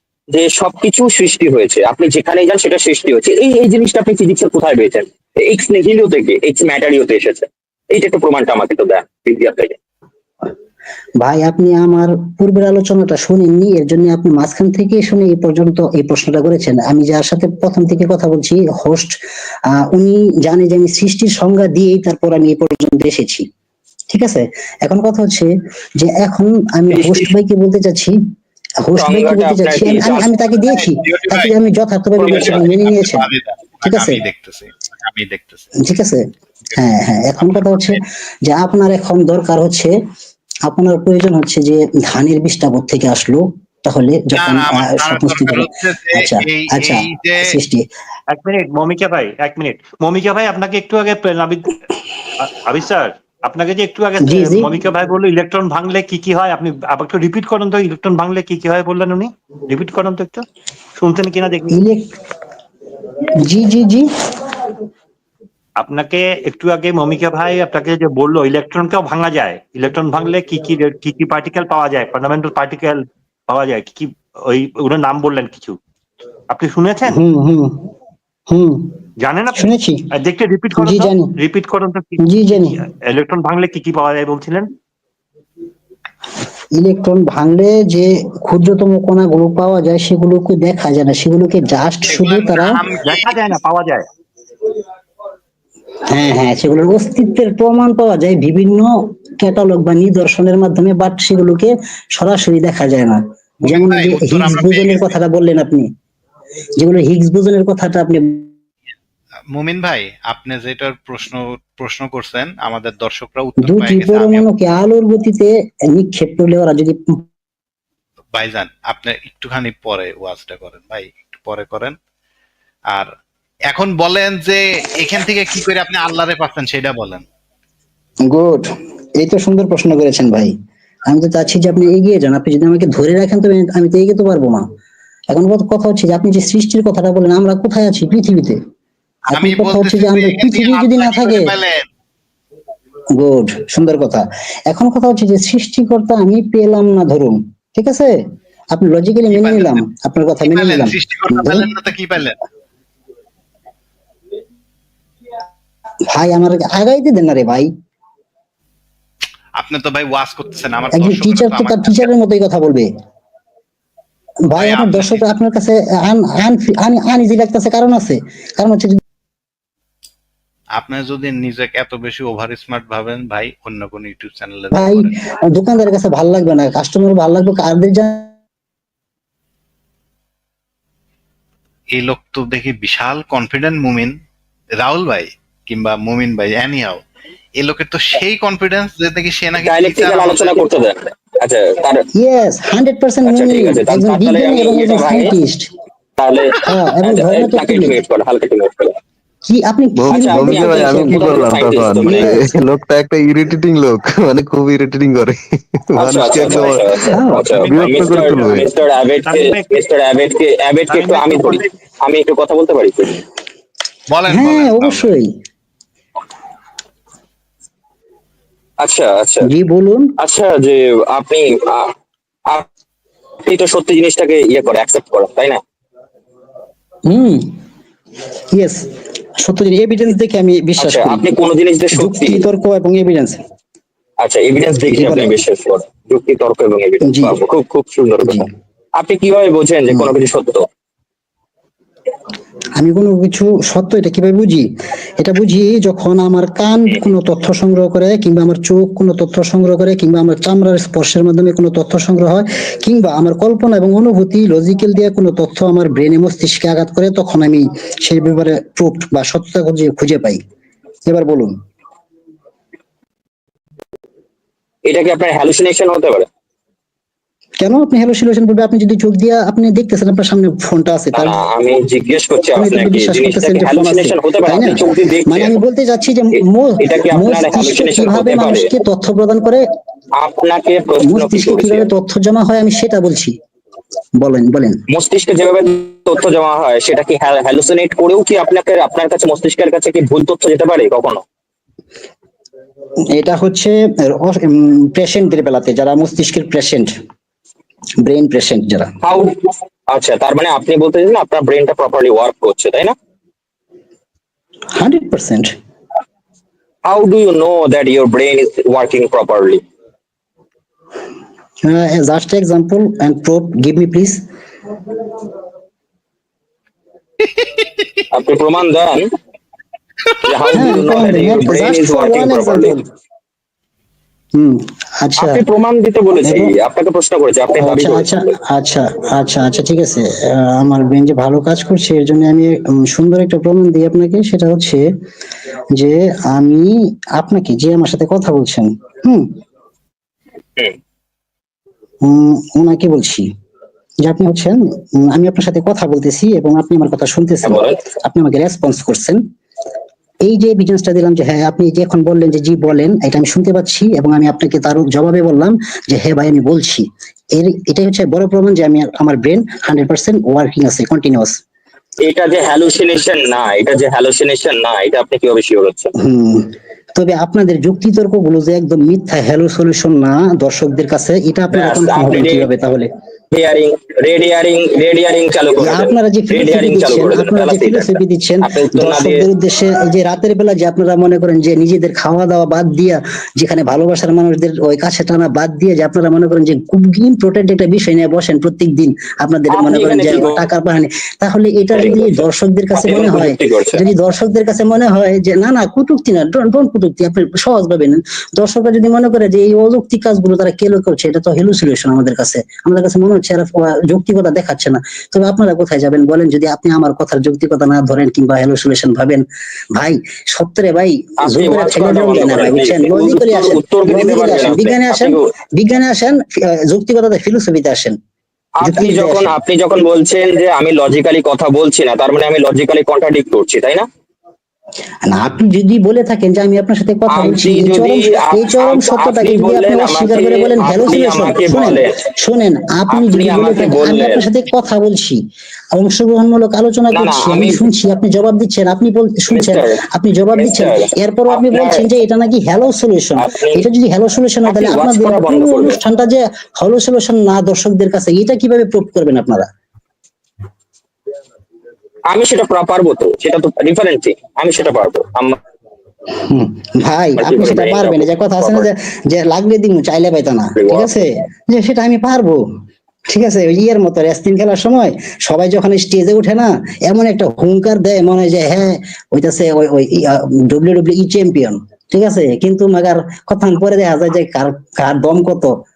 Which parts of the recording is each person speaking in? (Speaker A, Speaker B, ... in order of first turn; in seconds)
Speaker A: 0.3-9.8, 26.9-27.3, 28.9-30.3, 32.2-32.6, 189.6-192.1, 193.2-195.4, 196.2-198.9, 200.1-202.4, 206.0-213.2, 218.8-219.5, 220.2-221.9, 223.4-225.6, 230.8-232.4, 234.2-238.5, 239.0-240.6, 264.9-266.3, 271.1-275.6, 276.4-278.7, 280.2-281.9, 284.9-291.2, 299.0-302.9, 306.9-309.6, 318.1-319.1, 320.3-322.8, 325.2-328.3, 347.4-347.8, 362.0-365.9, 371.5-372.5, 373.3-379.3, 389.5-390.4, 391.7-392.2, 392.8-393.8, 411.2-415.2, 418.6-423.9, 427.1-432.0, 432.9-434.3, 436.9-437.7, 439.3-439.8, 440.3-441.9, 443.2-443.7, 444.5-445.8, 452.1-455.4, 457.2-458.7, 460.6-461.0
Speaker B: 11.2-19.1, 19.8-23.5, 24.1-28.2, 28.8-33.3, 33.8-34.2, 35.8-36.2, 36.8-40.0, 40.7-47.9, 54.2-54.8, 61.7-62.1, 63.4-64.1, 77.1-77.8, 78.5-78.9, 79.5-80.1, 80.8-81.3, 82.2-82.8, 86.8-92.8, 96.1-105.9, 106.8-108.5, 113.6-117.2, 128.3-128.7, 129.2-130.5, 131.1-134.7, 135.3-138.6, 139.3-141.5, 143.2-148.2, 148.7-151.7, 156.1-157.7, 160.9-162.9, 164.5-169.0, 174.7-178.3, 192.2-195.7, 196.6-198.0, 199.5-201.4, 202.1-202.5, 207.1-207.6, 214.3-215.3, 219.5-220.1, 227.1-227.5, 228.5-231.3, 231.9-233.4, 234.9-235.3, 237.0-237.4, 242.8-244.7, 245.2-260.4, 261.1-261.5, 267.6-271.4, 272.6-279.6, 281.0-283.3, 284.2-284.8, 293.1-296.9, 298.0-298.9, 304.8-305.5, 311.7-314.2, 320.5-322.8, 324.3-325.4, 326.2-326.5, 327.6-334.9, 335.7-339.3, 342.0-343.3, 344.0-349.2, 350.2-361.4, 366.0-372.9, 375.6-418.0, 418.6-419.3, 425.1-435.2, 435.7-449.5, 456.1-462.4, 463.1-475.5
Speaker C: 30.4-31.5, 32.4-35.7, 37.4-38.0, 44.3-47.5, 92.1-93.5, 103.6-105.2, 109.5-114.5, 118.3-122.0, 123.7-127.2, 139.3-141.8, 149.3-149.8, 150.4-152.4, 159.6-162.1, 164.6-165.2, 170.8-175.2, 181.9-184.1, 184.8-187.0, 187.6-190.7, 214.1-215.1, 317.2-317.9, 320.1-320.6
Speaker D: 48.3-60.5, 61.0-61.8, 65.8-75.8, 76.5-77.2, 79.2-84.7, 93.0-94.0, 206.4-208.3, 209.2-209.8, 210.9-211.6
Speaker E: 199.9-208.7